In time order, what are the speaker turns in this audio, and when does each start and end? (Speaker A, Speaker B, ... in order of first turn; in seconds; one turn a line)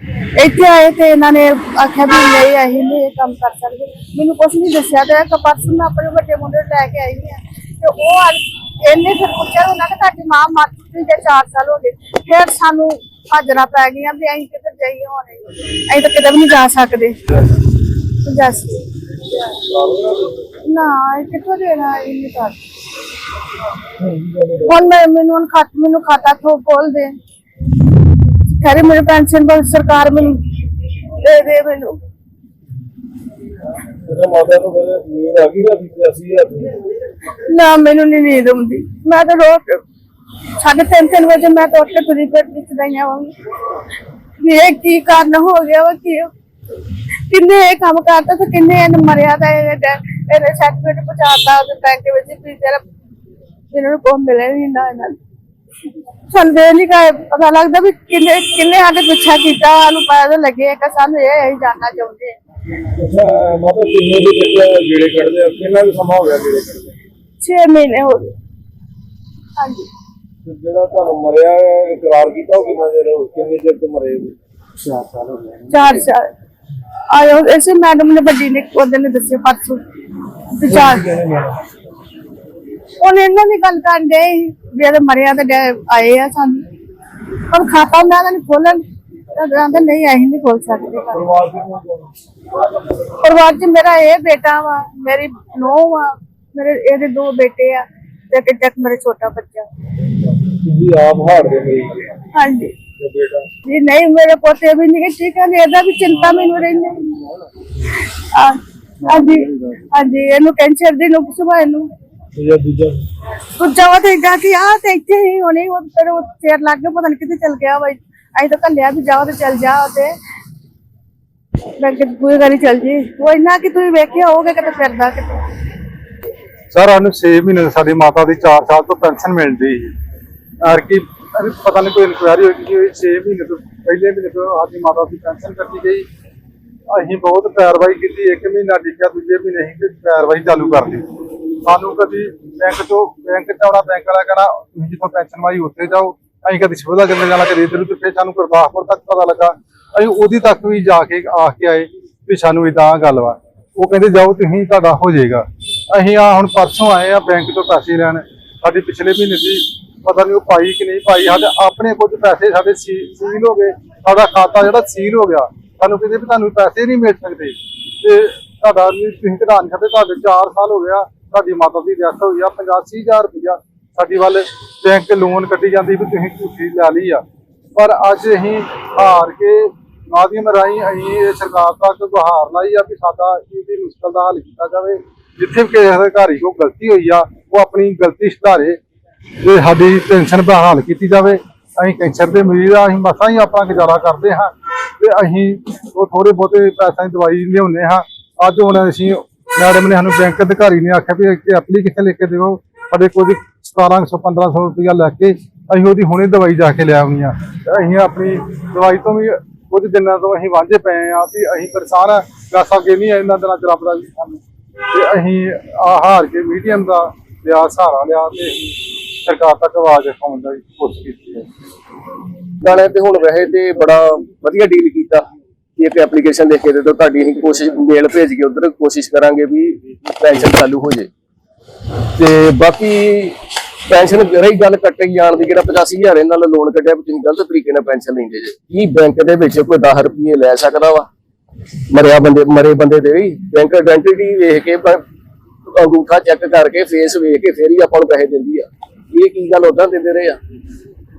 Speaker A: 0.4-17.3
Speaker A: 18.2-19.6
Speaker B: 19.7-20.3
Speaker A: 20.6-22.6
Speaker B: 24.0-24.7
Speaker A: 24.6-27.1
Speaker A: 28.5-30.4
Speaker A: 31.0-32.0
Speaker B: 34.1-36.8
Speaker A: 37.5-39.8
Speaker A: 40.6-43.3
Speaker A: 44.4-46.3
Speaker A: 47.3-52.8
Speaker A: 53.7-55.2
Speaker A: 56.3-62.4
Speaker B: 63.0-66.9
Speaker A: 67.4-68.3
Speaker A: 69.6-69.9
Speaker B: 70.4-74.3
Speaker B: 74.8-75.6
Speaker A: 75.7-76.3
Speaker A: 77.1-79.8
Speaker A: 80.5-81.1
Speaker B: 80.7-81.6
Speaker A: 83.0-86.7
Speaker A: 87.5-91.2
Speaker B: 91.1-92.1
Speaker A: 93.1-99.7
Speaker B: 100.6-102.1
Speaker A: 102.3-102.8
Speaker B: 103.0-103.5
Speaker A: 103.7-107.3
Speaker A: 107.8-111.9
Speaker B: 112.3-113.0
Speaker A: 113.6-120.1
Speaker A: 121.8-125.4
Speaker C: 126.7-129.9
Speaker C: 130.6-136.1
Speaker C: 136.9-141.1
Speaker C: 141.6-177.2
Speaker C: 177.8-188.8
Speaker C: 189.4-221.5
Speaker D: 222.6-225.2
Speaker D: 225.8-231.1
Speaker D: 232.2-233.4
Speaker D: 233.9-241.1
Speaker D: 241.9-245.0
Speaker D: 245.7-250.4